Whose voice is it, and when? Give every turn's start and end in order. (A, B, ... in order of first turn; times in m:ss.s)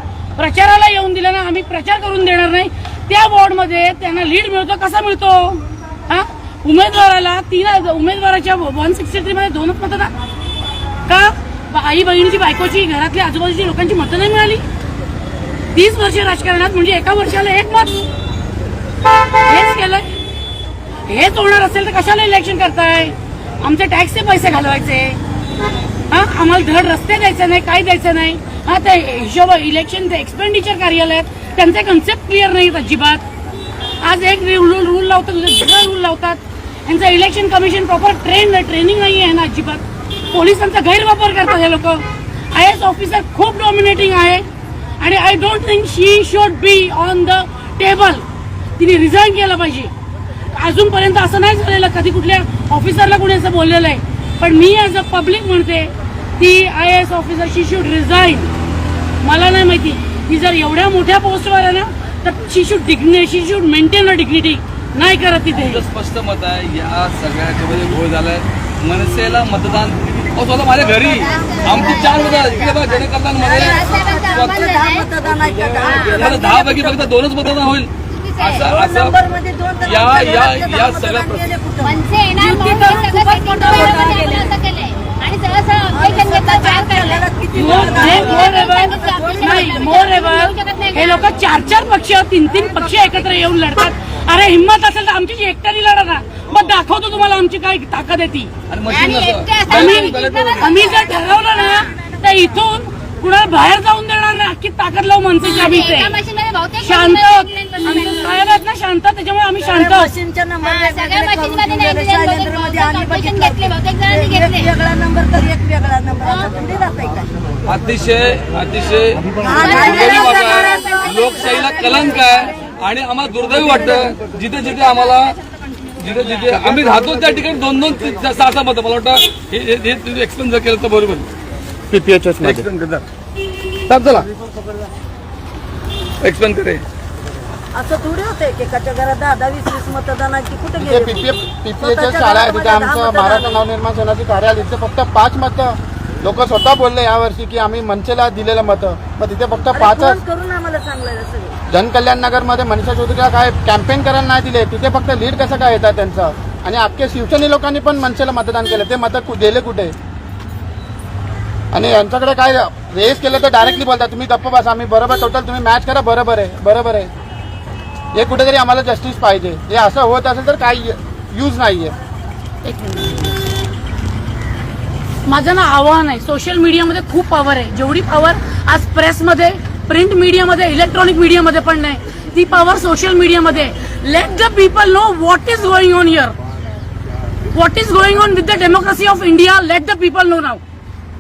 0:00.4-0:10.1 A
0:11.1-0:14.6 A
0:15.7-0:18.0 A
0:19.4-0:20.1 A
0:21.1-0:25.2 A
0:26.1-0:33.2 A
0:34.0-0:44.4 A
0:45.0-0:48.2 A
0:48.8-0:49.9 A
0:50.5-0:58.5 A
0:59.2-1:05.8 A
1:05.6-1:14.6 B
1:11.0-1:12.5 C
1:11.4-1:12.9 D
1:13.4-1:17.1 C
1:13.4-1:15.1 D
1:15.8-1:19.2 B
1:18.1-1:18.6 D
1:18.6-1:22.0 C
1:19.8-1:21.5 B
1:21.8-1:27.2 D
1:22.4-1:24.0 A
1:22.9-1:24.6 C
1:25.9-1:30.0 C
1:27.6-1:38.5 A
1:27.8-1:31.3 D
1:38.7-1:40.8 B
1:38.9-1:41.9 D
1:39.7-1:46.2 A
1:45.4-1:48.4 D
1:46.8-1:50.1 A
1:49.6-1:57.3 C
1:50.6-1:54.7 D
1:56.2-1:56.5 D
1:57.7-2:05.4 B
1:59.4-2:02.5 C
1:59.5-2:02.3 D
2:06.0-2:11.3 B
2:11.9-2:12.7 E
2:12.4-2:13.0 B
2:13.9-2:14.3 B
2:16.2-2:16.8 B
2:17.7-2:23.6 C
2:20.8-2:30.2 E
2:29.7-2:31.6 C
2:31.7-2:40.0 E
2:41.7-2:47.1 E
2:48.2-2:52.0 E
2:52.6-2:53.3 A
2:55.2-3:06.4 A
3:07.5-3:10.6 A